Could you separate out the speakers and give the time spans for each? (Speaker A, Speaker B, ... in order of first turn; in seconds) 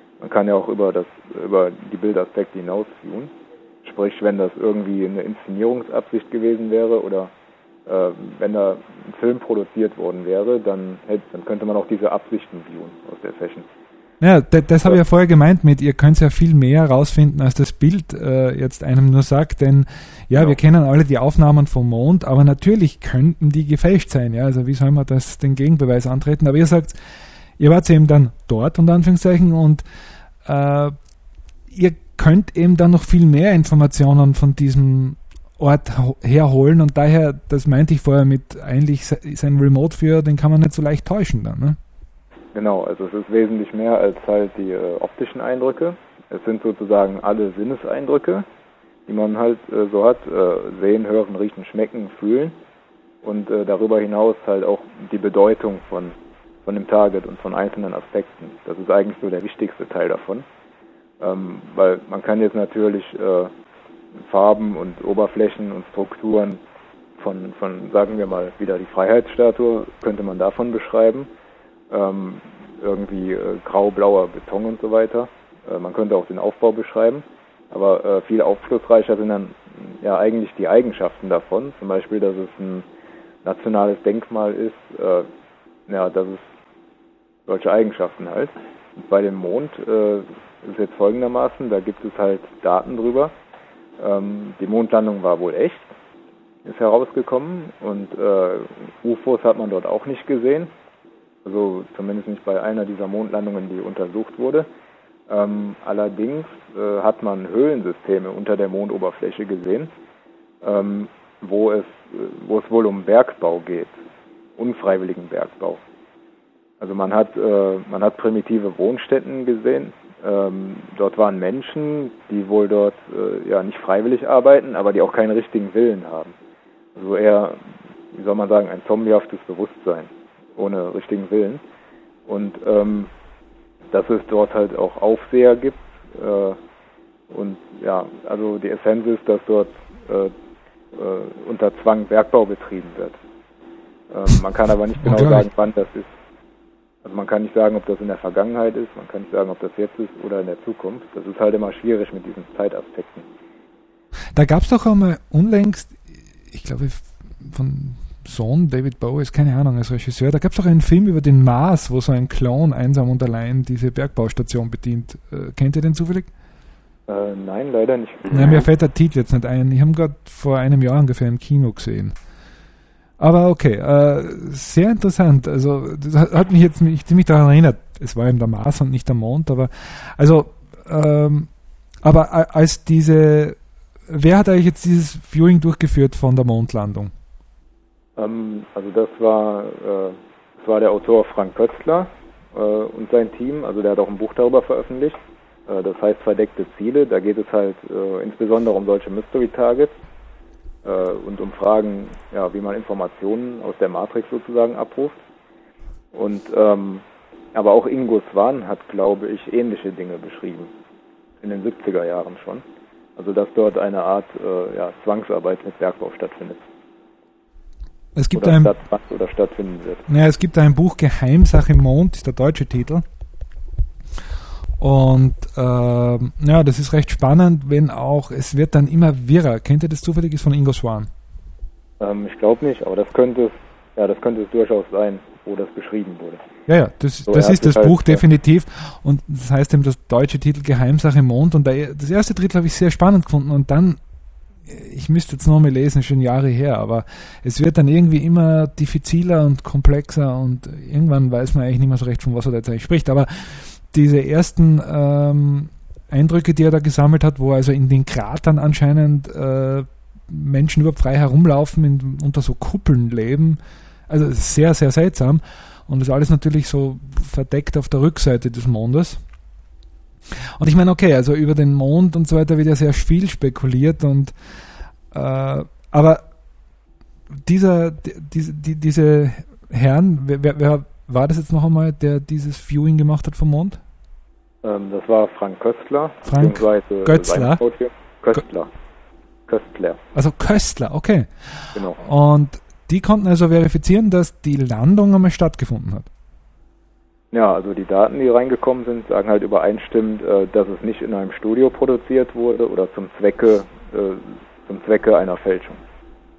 Speaker A: 0.2-3.3, 3.8-7.3, 7.9-13.7, 20.3-20.6, 42.5-48.4, 49.1-52.5, 53.2-60.4, 61.2-63.5, 64.2-66.6, 67.2-71.3, 71.9-82.8, 83.4-85.2, 85.9-86.4, 87.5-93.3, 94.0-95.9, 96.6-100.7, 101.4-104.7, 105.3-109.9, 110.6-114.0, 114.6-115.8, 116.8-126.3, 126.9-127.6, 128.1-131.6, 132.3-133.1, 133.9-136.6, 137.3-140.3, 140.9-143.2, 144.1-146.1, 147.0-153.3, 167.1-168.6, 188.2-199.9, 200.8-205.2, 206.1-210.7, 211.4-212.6, 213.2-216.6, 218.3-220.1, 232.0-236.4, 237.3-238.2, 284.6-288.7, 289.5-290.0, 291.7-292.0, 297.3-305.8
Speaker B: 14.2-26.9, 27.6-29.8, 30.4-30.9, 31.7-41.8, 145.0-145.5, 154.3-166.3, 168.3-172.1, 173.2-181.5, 182.0-183.6, 184.1-187.1, 218.2-218.7, 220.1-223.0, 224.8-231.1, 236.7-244.0, 244.7-269.2, 270.6-274.3, 275.1-276.2, 277.4-283.8, 286.2-287.6, 290.1-296.1